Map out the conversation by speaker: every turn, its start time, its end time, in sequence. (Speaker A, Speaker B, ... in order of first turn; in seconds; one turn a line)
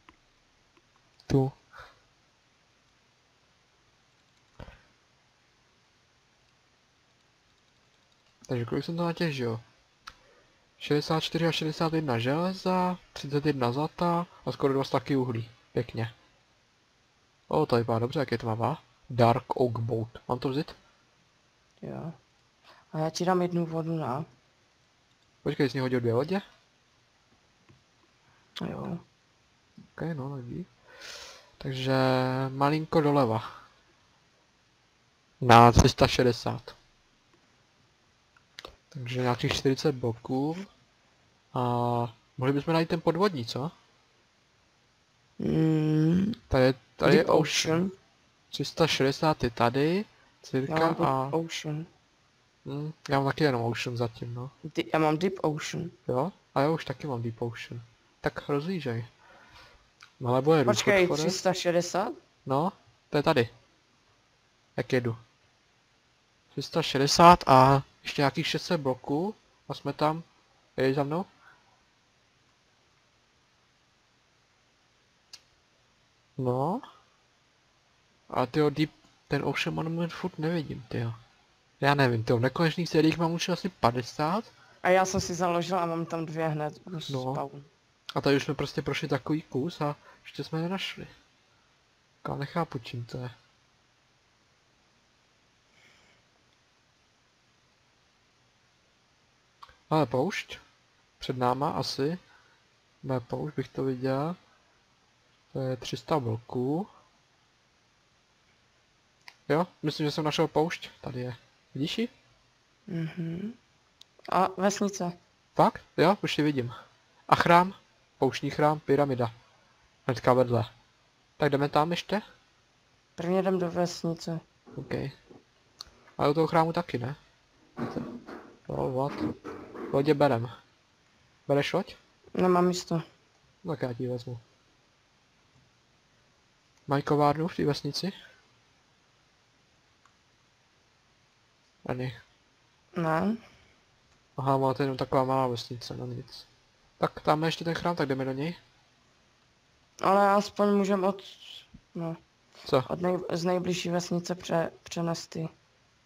Speaker A: 1.3-1.6
Speaker A: 8.5-9.6
Speaker A: 10.8-16.1
Speaker A: 17.5-20.8
Speaker B: 21.8-22.1
Speaker B: 22.9-24.3
Speaker A: 25.4-26.4
Speaker B: 28.6-29.0
Speaker A: 29.9-30.7
Speaker A: 31.6-33.6
Speaker A: 35.4-36.8
Speaker A: 38.9-40.7
Speaker A: 41.5-43.7
Speaker B: 45.4-46.4
Speaker A: 46.5-47.8
Speaker B: 47.0-47.9
Speaker A: 48.5-51.3
Speaker B: 50.7-51.9
Speaker A: 52.6-54.5
Speaker B: 54.6-55.9
Speaker A: 56.1-59.1
Speaker A: 60.2-61.4
Speaker B: 60.6-62.1
Speaker A: 62.5-63.5
Speaker A: 64.8-65.2
Speaker A: 66.5-70.2
Speaker A: 70.8-71.3
Speaker A: 76.4-76.8
Speaker A: 78.3-81.2
Speaker A: 81.8-84.5
Speaker B: 84.8-87.7
Speaker A: 87.1-87.4
Speaker A: 88.1-91.1
Speaker A: 92.2-93.3
Speaker A: 99.9-100.6
Speaker A: 101.2-102.2
Speaker A: 103.0-104.4
Speaker A: 105.5-106.9
Speaker A: 109.5-112.1
Speaker B: 112.9-113.6
Speaker B: 114.3-115.2
Speaker A: 115.5-116.8
Speaker A: 117.3-119.3
Speaker A: 120.0-120.7
Speaker A: 121.4-122.2
Speaker B: 123.2-124.4
Speaker A: 124.7-125.1
Speaker A: 126.2-127.2
Speaker A: 127.8-128.1
Speaker A: 128.7-129.3
Speaker A: 129.9-130.5
Speaker A: 131.5-132.0
Speaker B: 132.3-133.0
Speaker A: 133.6-134.4
Speaker A: 136.9-138.1
Speaker A: 141.8-142.2
Speaker B: 142.9-143.4
Speaker A: 144.4-146.5
Speaker A: 147.0-148.6
Speaker B: 150.0-152.2
Speaker B: 152.8-155.5